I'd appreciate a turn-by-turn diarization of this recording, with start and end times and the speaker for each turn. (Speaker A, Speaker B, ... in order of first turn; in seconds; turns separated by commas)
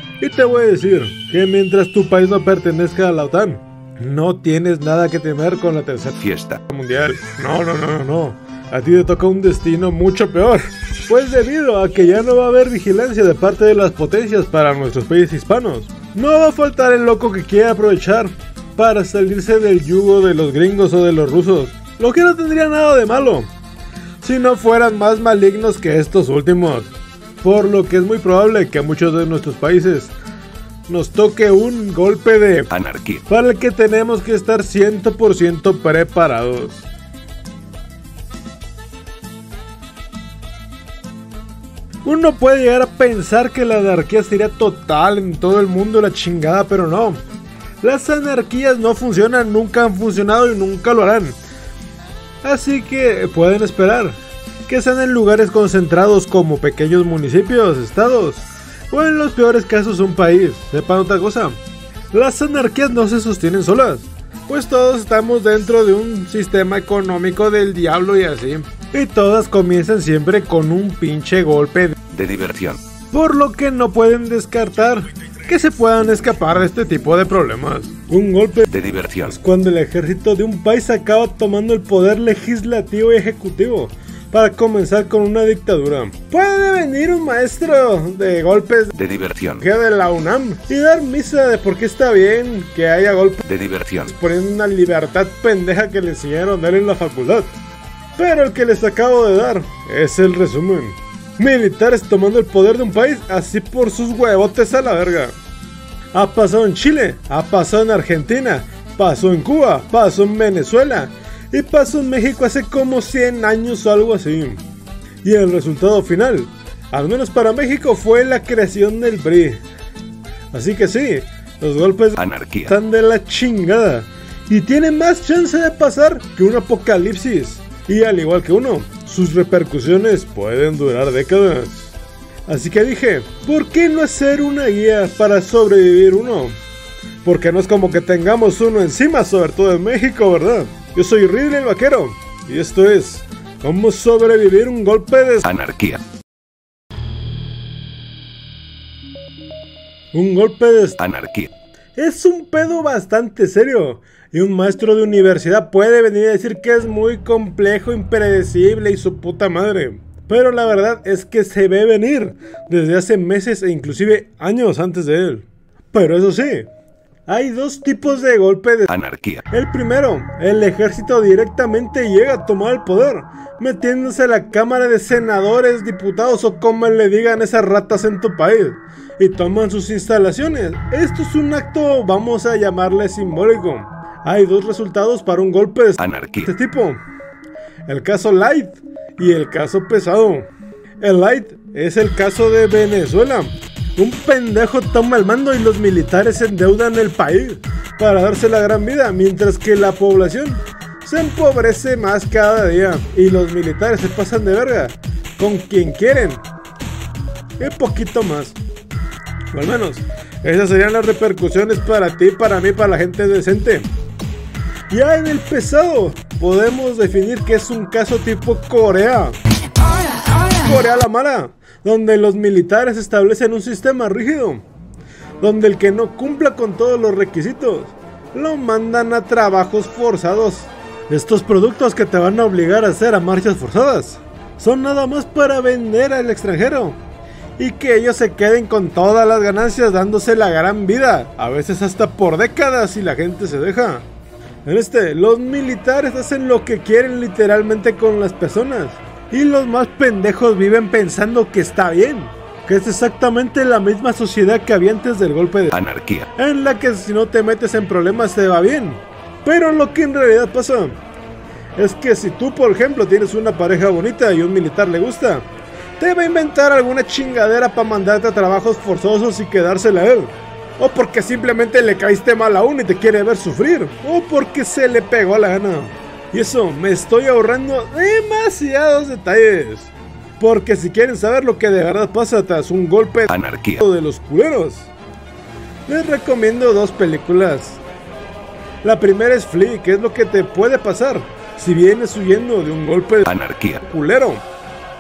Speaker A: 0.2-23.5, Speaker B: 6.2-6.6, Speaker A: 24.2-26.9, Speaker A: 27.4-30.1, Speaker A: 30.9-32.7, Speaker B: 32.7-33.2, Speaker A: 33.3-36.9, Speaker A: 42.0-47.2, Speaker A: 47.8-51.4, Speaker A: 52.4-61.6, Speaker A: 62.1-72.0, Speaker B: 72.1-72.8, Speaker A: 73.1-78.7, Speaker B: 78.7-79.3, Speaker A: 79.2-89.0, Speaker B: 89.0-89.6, Speaker A: 89.6-93.5, Speaker B: 93.5-94.1, Speaker A: 94.0-97.5, Speaker A: 98.2-105.3, Speaker A: 106.1-114.6, Speaker A: 115.2-119.6, Speaker A: 120.5-131.9, Speaker B: 122.2-122.7, Speaker A: 132.5-136.6, Speaker A: 137.2-145.5, Speaker B: 145.4-146.0, Speaker A: 150.1-151.0, Speaker B: 151.0-151.5, Speaker A: 152.0-166.7, Speaker A: 167.3-168.9, Speaker B: 168.9-169.4, Speaker A: 169.5-187.0, Speaker B: 186.0-186.5, Speaker A: 187.9-190.5, Speaker A: 191.0-206.4, Speaker A: 207.6-208.6, Speaker A: 209.5-213.8, Speaker A: 214.9-219.3, Speaker A: 220.3-224.6, Speaker A: 225.4-237.0, Speaker A: 237.6-244.1, Speaker A: 244.7-255.8, Speaker B: 255.7-256.3, Speaker A: 256.3-261.0, Speaker A: 261.8-265.4, Speaker A: 266.0-284.9, Speaker B: 283.3-283.8, Speaker A: 285.9-287.8, Speaker A: 288.8-294.4, Speaker B: 293.3-293.8